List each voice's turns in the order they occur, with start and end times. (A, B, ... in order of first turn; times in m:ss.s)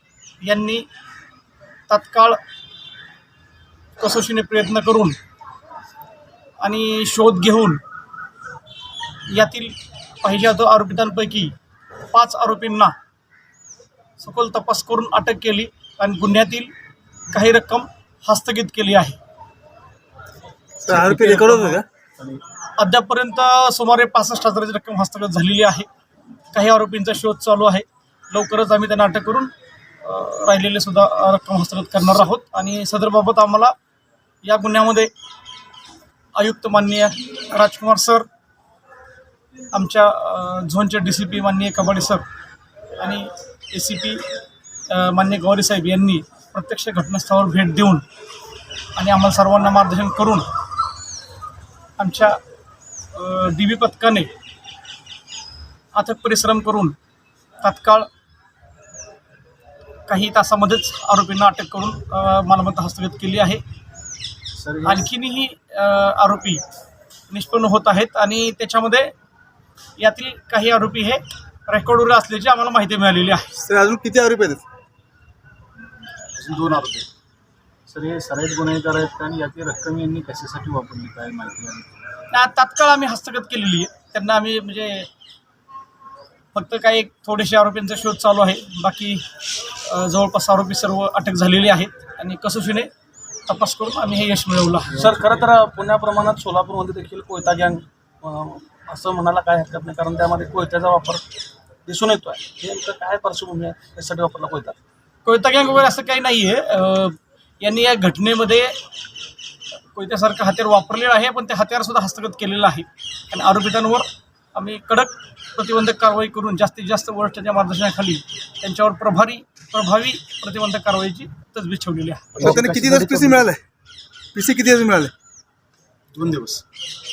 0:00.4-0:00.9 A
0:01.9-0:02.4 A
0:04.0-0:05.2 A
0:06.6-0:07.8 A
0:09.3-0:11.5 A
0:12.1-0:12.9 A
0:14.2-0:16.7 A
0:17.3-0:19.2 A
0:20.8-0:22.4 B
0:20.9-0:21.8 C
0:22.8-0:25.9 A
0:26.5-0:29.5 A
0:30.0-0:33.7 A
0:34.4-0:35.1 A
0:36.4-0:38.3 A
0:39.7-0:42.2 A
0:43.0-0:44.2 A
0:44.9-0:48.0 A
0:49.0-0:50.5 A
0:52.0-0:52.4 A
0:53.1-0:54.3 A
0:55.9-0:56.9 A
0:57.6-0:58.1 A
1:00.1-1:03.6 A
1:04.6-1:05.0 B
1:04.8-1:06.6 A
1:07.3-1:09.1 A
1:10.0-1:13.5 A
1:13.6-1:14.6 C
1:16.4-1:17.1 B
1:17.9-1:21.9 B
1:22.3-1:25.1 A
1:26.5-1:32.9 A
1:33.5-1:35.1 A
1:34.9-1:41.2 B
1:41.8-1:44.8 B
1:45.2-1:48.7 A
1:49.9-2:02.5 A
2:02.4-2:03.5 B
2:02.4-2:03.6 C
2:04.3-2:05.1 C
2:06.2-2:06.6 B